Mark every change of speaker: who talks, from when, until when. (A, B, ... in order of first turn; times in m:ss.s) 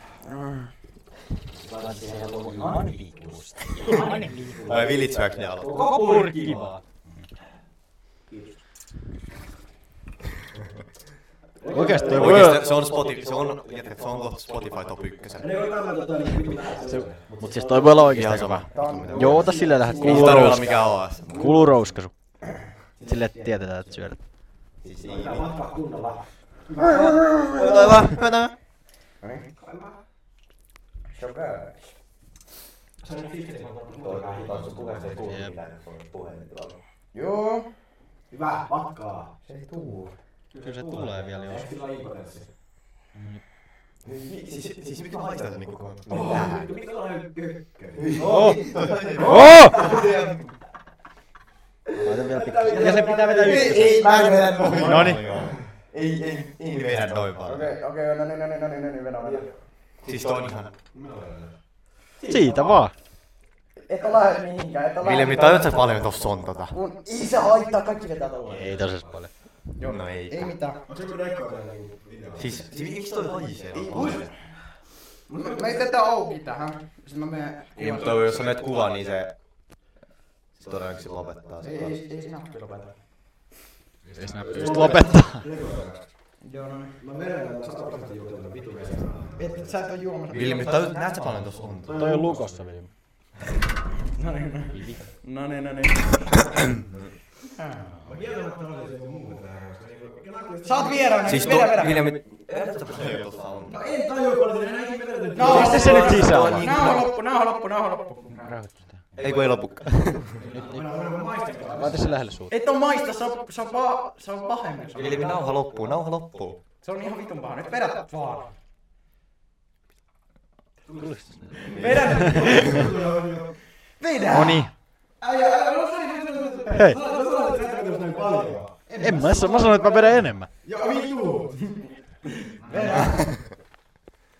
0:00.2-0:00.7 A
0:01.7-0:04.6 B
0:03.9-0:04.3 A
0:04.5-0:04.8 C
0:04.6-0:05.9 D
0:05.6-0:06.7 C
0:05.8-0:07.2 B
0:11.6-0:12.7 C
0:11.7-0:12.7 B
0:12.1-0:15.7 D
0:15.4-0:21.6 C
0:16.8-0:24.2 B
0:17.3-0:21.6 D
0:18.7-0:20.2 A
0:23.0-0:23.5 C
0:24.8-0:25.5 D
0:25.0-0:28.2 C
0:26.9-0:28.5 D
0:29.2-0:29.5 A
0:29.6-0:30.0 C
0:31.0-0:32.0 A
0:33.0-0:35.0 C
0:34.0-0:36.8 D
0:35.2-0:35.5 B
0:37.1-0:37.7 A
0:38.3-0:39.3 C
0:39.4-0:40.2 A
0:40.5-0:42.5 C
0:40.6-0:41.7 B
0:43.1-0:43.4 B
0:44.0-0:46.5 D
0:46.1-0:50.1 C
0:46.1-0:46.4 A
0:48.0-0:50.5 D
0:49.2-0:49.8 B
0:52.0-0:54.0 B
0:52.0-0:54.0 C
0:53.4-0:57.7 D
0:53.4-0:55.1 A
0:54.7-0:55.2 B
0:57.4-0:59.5 A
1:00.0-1:00.8 D
1:00.9-1:01.5 C
1:02.2-1:02.8 C
1:02.3-1:02.9 B
1:03.8-1:05.9 A
1:05.0-1:06.7 D
1:06.7-1:08.8 A
1:08.5-1:09.3 B
1:09.8-1:10.8 A
1:09.8-1:10.5 D
1:10.9-1:12.5 C
1:12.4-1:14.4 D
1:13.8-1:14.2 A
1:15.3-1:18.4 A
1:17.8-1:19.4 D
1:20.5-1:21.9 D
1:21.6-1:23.0 A
1:24.1-1:25.5 B
1:24.2-1:26.1 C
1:26.4-1:27.0 A
1:27.0-1:29.7 C
1:29.4-1:30.9 A
1:30.3-1:32.2 D
1:31.9-1:32.3 C
1:31.9-1:32.9 B
1:34.1-1:36.5 A
1:34.7-1:35.0 B
1:37.5-1:38.2 A
1:38.0-1:41.8 C
1:40.6-1:42.1 A
1:41.2-1:43.8 D
1:43.7-1:46.3 C
1:45.3-1:48.5 A
1:45.4-1:46.7 B
1:45.5-1:47.1 D
1:48.4-1:49.0 B
1:49.1-1:50.3 D
1:50.4-1:52.1 C
1:50.5-1:50.9 B
1:51.7-1:52.5 B
1:52.5-1:55.5 A
1:54.9-1:56.6 D
1:56.8-1:58.6 A
2:00.9-2:03.6 C
2:01.0-2:02.6 B
2:01.7-2:02.9 A
2:01.7-2:02.6 D
2:04.0-2:04.8 A
2:04.3-2:04.7 B
2:05.2-2:11.9 C
2:06.7-2:07.0 B
2:08.9-2:10.1 A
2:09.0-2:10.5 B
2:12.5-2:13.3 A
2:12.6-2:13.4 C